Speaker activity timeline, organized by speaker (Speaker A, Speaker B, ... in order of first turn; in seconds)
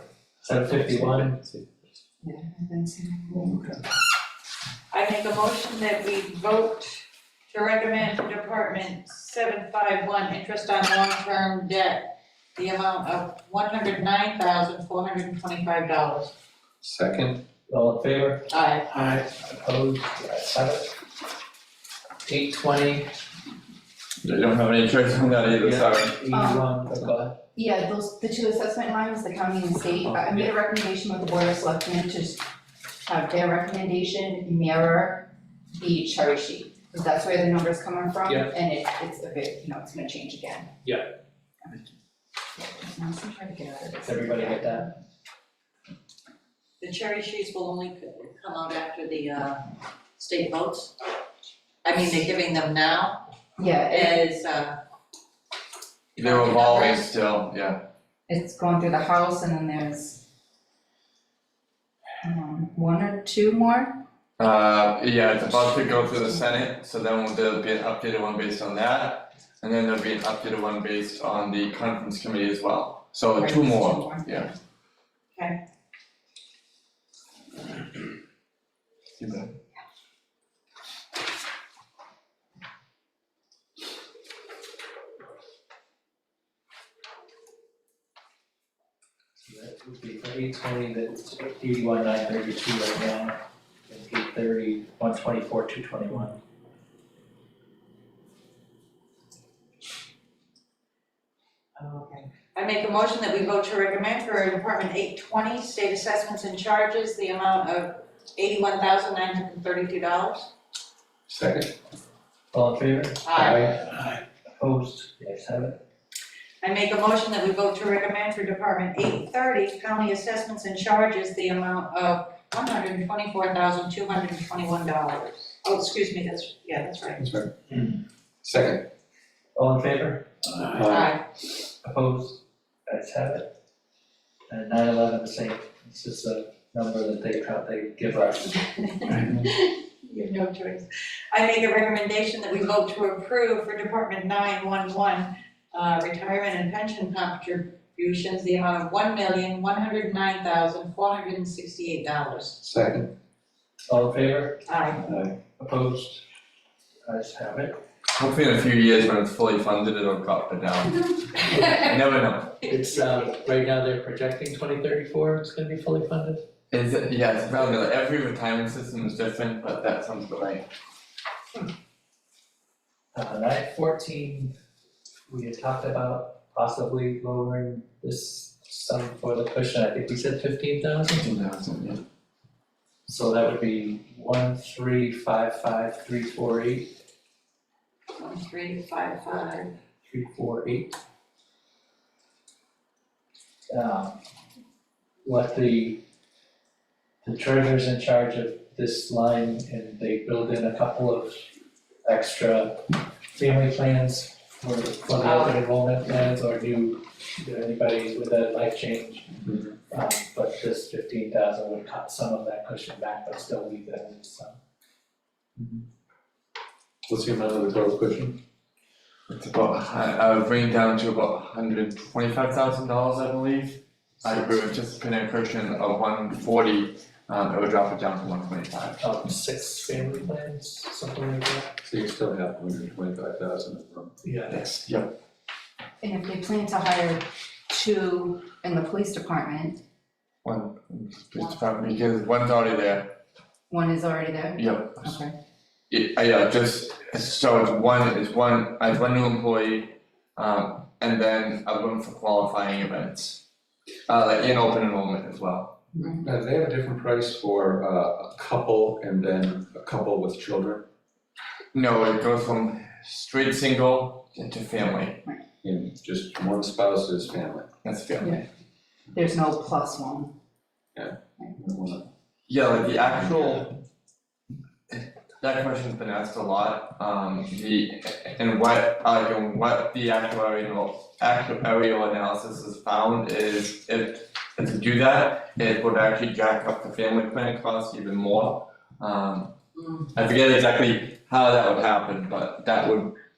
Speaker A: 0.4-1.4, 17.7-20.9, 22.2-23.1, 25.4-27.4, 30.0-30.5, 38.2-38.5, 44.0-45.0, 89.4-96.4, 112.5-115.8, 129.5-130.8, 131.8-133.5, 134.5-138.6, 153.9-154.6, 155.4-156.2, 157.0-157.8, 162.7-166.4, 173.1-174.5, 175.3-181.3, 183.1-186.9, 190.0-190.9, 193.7-194.2, 195.2-196.0, 197.2-201.5, 202.0-214.6, 229.0-231.8, 234.2-234.6
Speaker B: 0.8-1.7, 3.3-3.7, 16.8-17.4, 111.3-111.8, 113.3-113.8, 127.2-127.5, 128.4-128.9, 130.6-131.2, 152.6-153.1, 155.0-155.4, 217.1-218.4, 231.8-234.2, 256.2-260.9, 265.6-267.7, 270.9-272.1
Speaker C: 2.2-3.6, 26.3-26.7, 27.6-32.5, 33.0-40.8, 41.6-41.9, 42.5-44.8, 53.6-54.2, 58.3-60.2, 62.2-64.0, 73.3-74.6, 236.0-239.8, 243.7-245.3, 255.9-256.2, 269.1-270.3
Speaker D: 4.9-16.3, 18.5-18.9, 46.8-50.9, 51.8-53.3, 53.9-54.8, 56.1-57.1, 101.8-110.5, 113.2-113.7, 116.6-127.2, 130.9-131.2, 138.9-152.6, 154.7-155.0, 188.2-189.7, 205.2-205.6, 289.8-290.1
Speaker E: 24.2-26.2, 56.2-57.8, 64.4-74.5, 79.2-79.6, 158.1-162.7, 166.7-170.7, 181.1-182.0, 219.3-229.0, 234.5-235.2, 240.4-243.1, 244.5-245.2, 245.9-253.4, 254.1-255.7, 261.7-265.2, 267.8-268.4, 272.5-273.8, 274.9-289.5, 290.1-293.1